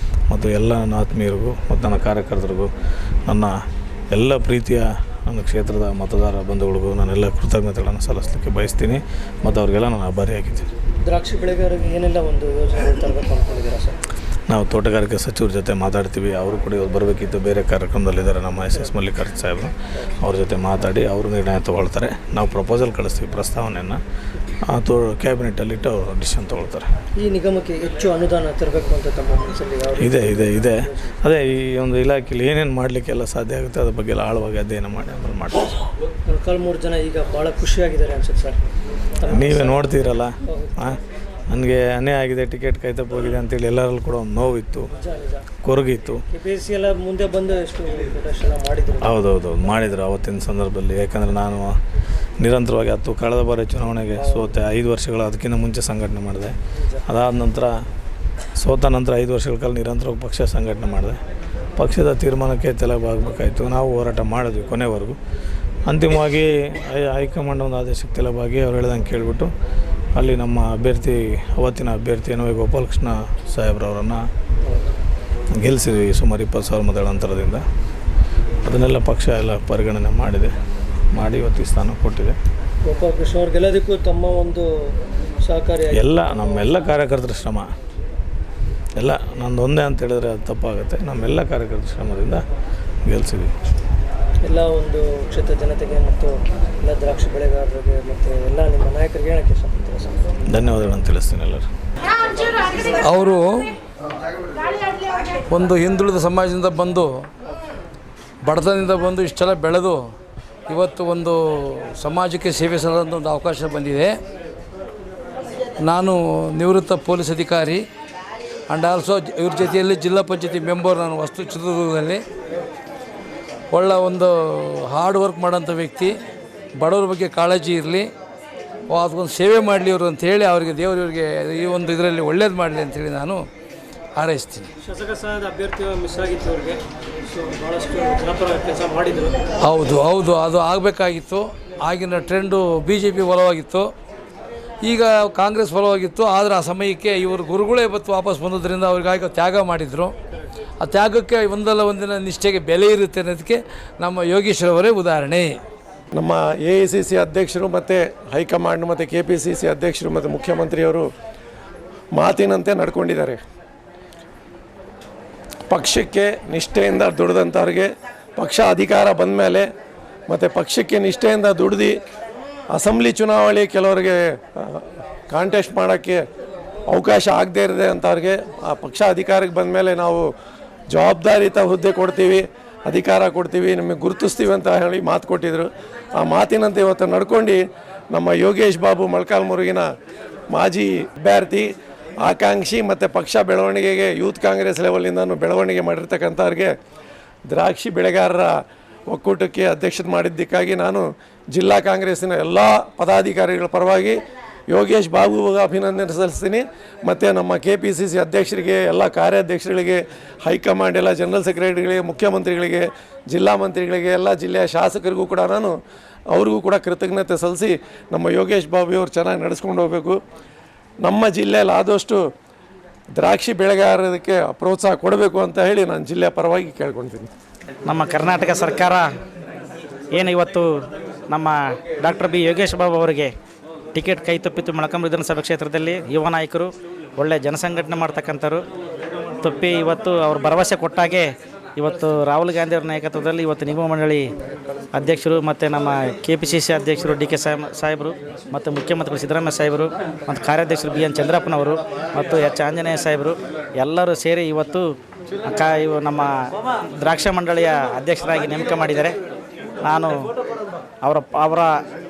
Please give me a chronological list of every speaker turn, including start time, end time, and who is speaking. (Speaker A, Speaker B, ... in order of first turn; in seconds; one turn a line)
Speaker A: 0.3-2.7
Speaker A: 3.3-3.6
Speaker A: 4.1-10.7
Speaker B: 11.0-13.9
Speaker A: 14.5-24.0
Speaker A: 24.6-26.9
Speaker B: 27.2-31.1
Speaker A: 30.0-35.7
Speaker B: 36.2-38.6
Speaker B: 39.2-40.7
Speaker A: 39.3-44.9
Speaker B: 44.9-45.5
Speaker A: 45.6-46.2
Speaker B: 46.3-49.2
Speaker A: 49.0-51.8
Speaker A: 52.4-56.5
Speaker B: 54.1-54.5
Speaker B: 56.8-57.0
Speaker A: 57.1-57.7
Speaker A: 58.6-61.2
Speaker A: 61.8-65.2
Speaker A: 65.8-69.5
Speaker A: 70.1-74.2
Speaker A: 75.5-77.7
Speaker A: 78.6-80.5
Speaker A: 81.1-82.4
Speaker B: 82.8-84.7
Speaker B: 85.4-86.7
Speaker A: 85.9-87.7
Speaker A: 89.0-92.4
Speaker A: 93.0-93.5
Speaker B: 94.4-100.3
Speaker A: 100.5-101.7
Speaker C: 103.0-103.7
Speaker C: 105.5-107.2
Speaker C: 108.4-110.0
Speaker C: 110.7-114.1
Speaker C: 115.8-117.8
Speaker C: 118.7-122.2
Speaker C: 123.7-126.1
Speaker C: 126.8-128.1
Speaker C: 128.9-133.4
Speaker C: 134.1-134.7
Speaker B: 134.8-139.4
Speaker C: 139.6-143.9
Speaker C: 144.8-150.1
Speaker C: 150.8-155.6
Speaker D: 156.1-161.1
Speaker D: 162.1-163.4
Speaker D: 165.7-169.7
Speaker D: 170.3-172.0
Speaker D: 172.7-176.2
Speaker D: 176.9-180.2
Speaker D: 180.9-187.6
Speaker D: 188.1-189.8
Speaker D: 190.5-191.7
Speaker D: 192.2-196.7
Speaker D: 197.5-198.5
Speaker D: 199.1-204.2
Speaker D: 204.7-215.7
Speaker D: 216.3-220.2
Speaker D: 221.0-222.2
Speaker D: 223.1-227.3
Speaker E: 227.8-229.1
Speaker E: 230.1-230.7
Speaker E: 231.3-233.3
Speaker E: 233.9-238.6
Speaker E: 239.4-244.2
Speaker E: 244.9-254.8
Speaker E: 255.4-256.3
Speaker E: 257.0-259.1
Speaker E: 259.8-260.3
Speaker E: 261.0-261.7